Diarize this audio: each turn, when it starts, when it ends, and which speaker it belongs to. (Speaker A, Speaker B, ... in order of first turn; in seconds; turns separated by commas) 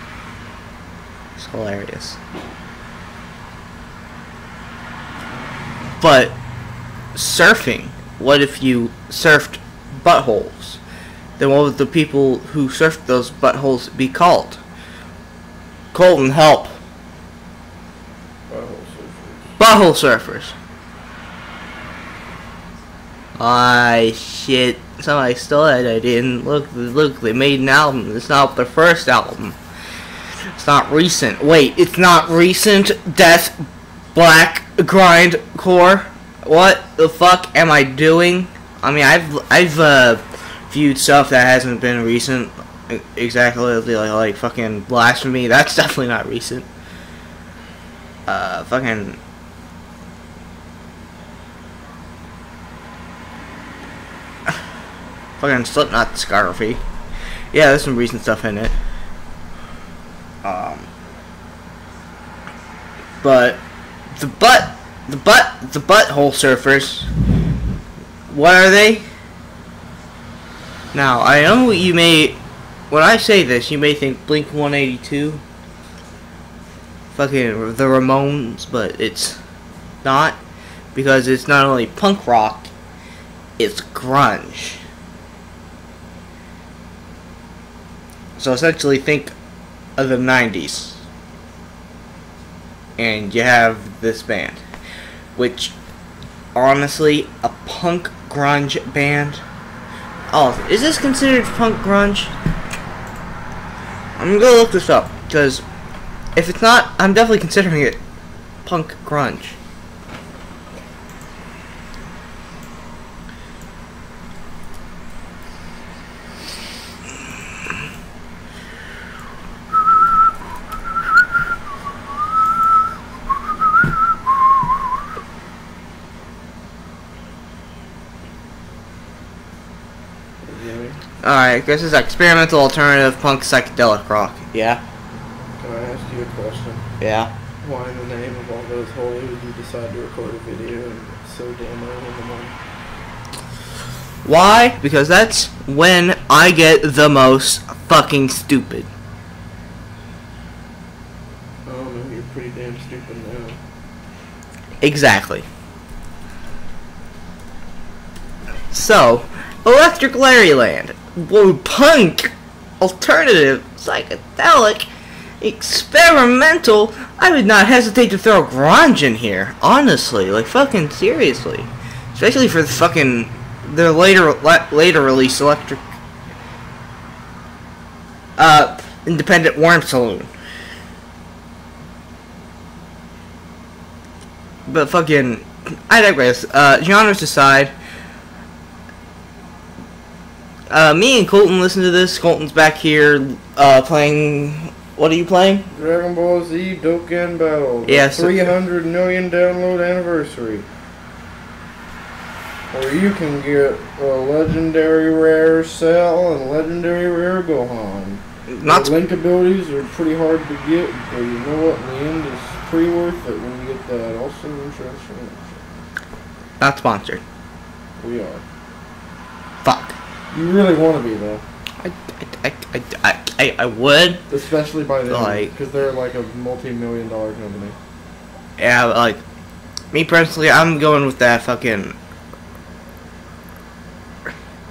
Speaker A: 1.4-2.2, Speaker A: 6.0-6.3, Speaker A: 7.2-10.8, Speaker A: 11.4-14.6, Speaker A: 15.9-16.8, Speaker B: 18.5-19.5, Speaker A: 19.6-20.5, Speaker A: 23.4-29.6, Speaker A: 30.6-46.7, Speaker A: 48.3-49.2, Speaker A: 55.4-56.8, Speaker A: 57.5-58.7, Speaker A: 60.4-60.9, Speaker A: 63.2-63.6, Speaker A: 64.1-67.1, Speaker A: 68.3-69.0, Speaker A: 70.9-75.4, Speaker A: 77.1-79.4, Speaker A: 80.0-80.4, Speaker A: 80.9-82.7, Speaker A: 83.6-84.8, Speaker A: 88.4-89.3, Speaker A: 90.0-91.0, Speaker A: 93.0-94.6, Speaker A: 95.4-95.8, Speaker A: 96.5-99.4, Speaker A: 100.3-102.3, Speaker A: 104.2-105.6, Speaker A: 106.3-108.0, Speaker A: 108.6-109.5, Speaker B: 130.4-131.0, Speaker A: 131.2-134.8, Speaker B: 135.6-136.8, Speaker A: 137.0-137.3, Speaker B: 137.6-142.6, Speaker A: 144.2-148.9, Speaker B: 151.7-153.6, Speaker A: 154.8-155.4, Speaker A: 158.7-164.9, Speaker A: 165.4-175.8, Speaker A: 178.4-180.3, Speaker A: 184.7-187.7, Speaker A: 190.7-195.7, Speaker B: 195.7-200.7, Speaker A: 197.8-198.5, Speaker B: 202.7-215.7, Speaker A: 208.5-208.9, Speaker A: 216.6-217.2, Speaker B: 218.0-218.4, Speaker A: 219.6-220.0, Speaker B: 220.3-221.4, Speaker A: 221.8-224.2, Speaker B: 224.3-227.8, Speaker A: 225.1-225.5, Speaker A: 228.6-229.2, Speaker A: 229.9-231.9